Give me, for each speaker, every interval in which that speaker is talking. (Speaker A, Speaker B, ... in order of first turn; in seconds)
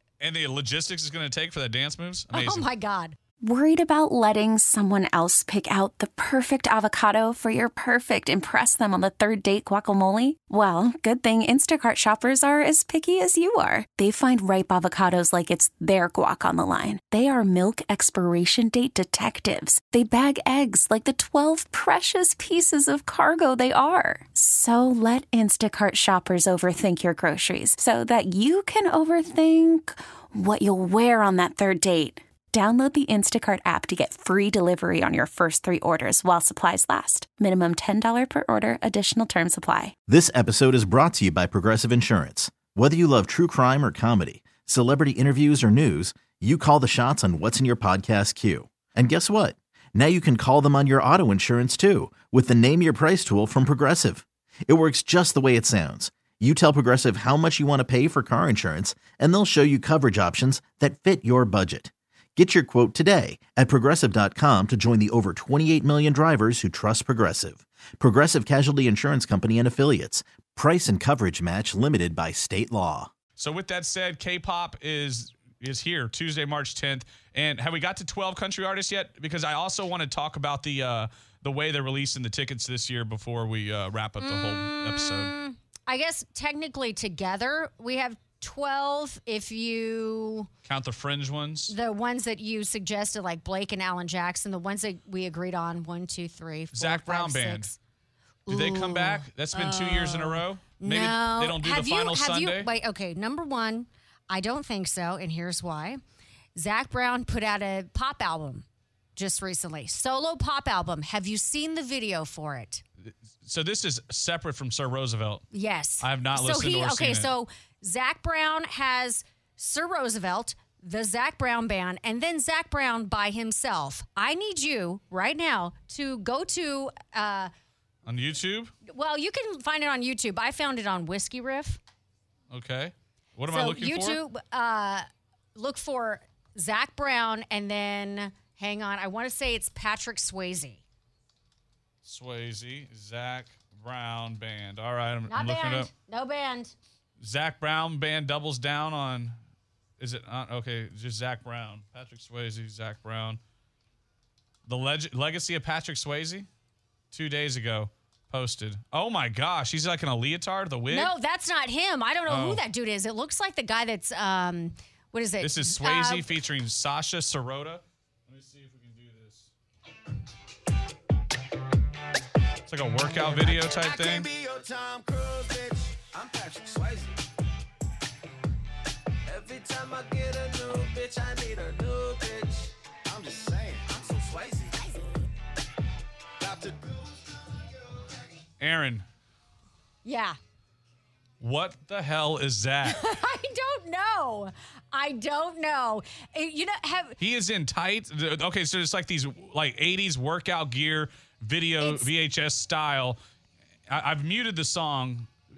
Speaker A: 0.2-2.6, 73.4-85.3, 90.6-91.7, 96.7-97.7, 98.5-102.7, 113.0-115.4, 116.0-117.3, 128.0-128.7, 132.5-134.2, 142.0-145.9, 147.2-149.3, 150.0-153.4, 154.7-156.5, 157.1-161.1, 162.3-162.6, 165.4-169.5, 172.7-174.3, 188.6-189.0, 191.4-193.0, 197.2-203.2, 203.9-205.3
Speaker B: 2.3-3.1, 84.2-90.5, 91.7-97.8, 98.5-106.0, 106.5-112.8, 115.5-127.5, 128.8-131.8, 133.5-140.8, 145.3-146.7, 160.9-166.3, 190.0-190.4, 192.8-197.2, 201.8-202.1
Speaker C: 3.4-39.9
Speaker D: 40.1-73.1
Speaker E: 173.5-177.2, 179.2-185.0, 186.4-188.1